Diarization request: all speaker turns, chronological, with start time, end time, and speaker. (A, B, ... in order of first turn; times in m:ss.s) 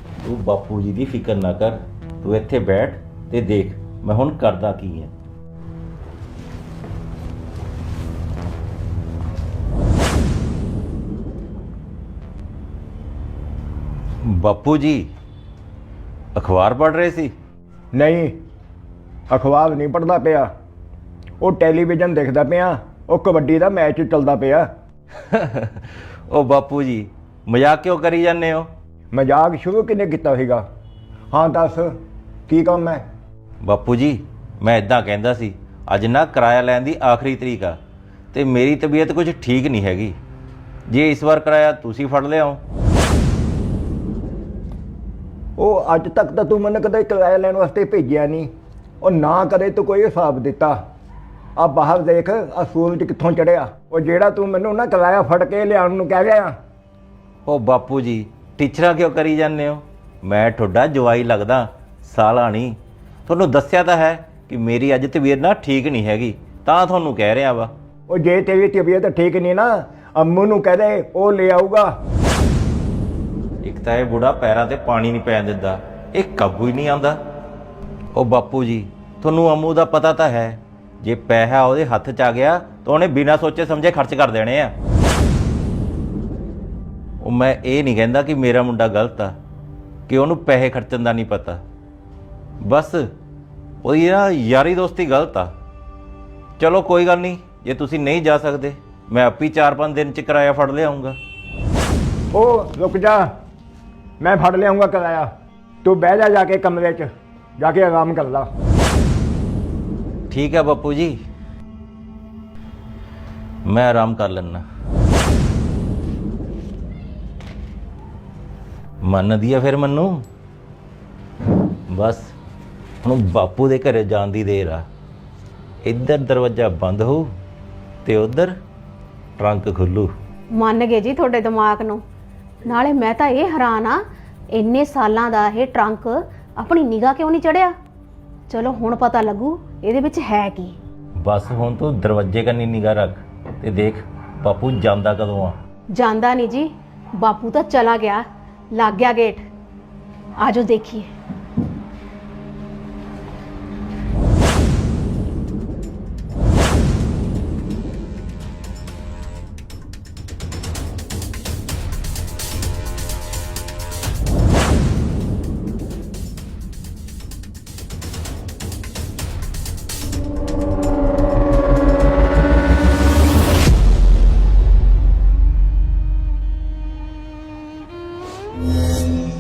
0:00.2-0:05.1 A
0:14.3-0:15.1 A
0:16.4-0:17.3 A
0:17.9-0:18.3 B
0:19.3-0:20.5 B
0:21.4-0:24.6 B
0:25.3-0:28.7 A
0:29.1-0:30.6 B
0:31.3-0:31.9 B
0:32.5-0:33.0 B
0:33.6-0:37.8 A
0:38.3-0:40.1 A
0:40.9-0:42.6 A
0:45.6-0:48.5 B
0:49.0-0:50.8 B
0:51.6-0:56.5 B
0:57.4-1:02.8 A
1:03.3-1:07.7 A
1:08.1-1:11.9 B
1:13.6-1:17.2 A
1:18.1-1:24.8 A
1:27.2-1:29.4 A
1:30.1-1:31.6 A
1:32.6-1:33.0 A
1:33.8-1:35.5 A
1:36.6-1:41.2 A
1:42.3-1:43.2 B
1:44.2-1:45.3 B
1:45.8-1:47.1 B
1:47.6-1:48.5 B
1:50.3-1:51.2 A
1:53.7-1:54.6 A
1:59.1-2:00.2 A
2:01.9-2:02.3 A
2:03.0-2:04.8 A
2:05.9-2:07.2 A
2:08.0-2:08.5 A
2:09.4-2:10.1 A
2:10.5-2:12.0 C
2:12.6-2:17.7 C
2:18.5-2:20.8 C
2:21.2-2:25.6 A
2:25.9-2:28.2 C
2:28.8-2:29.4 C
2:30.4-2:31.1 C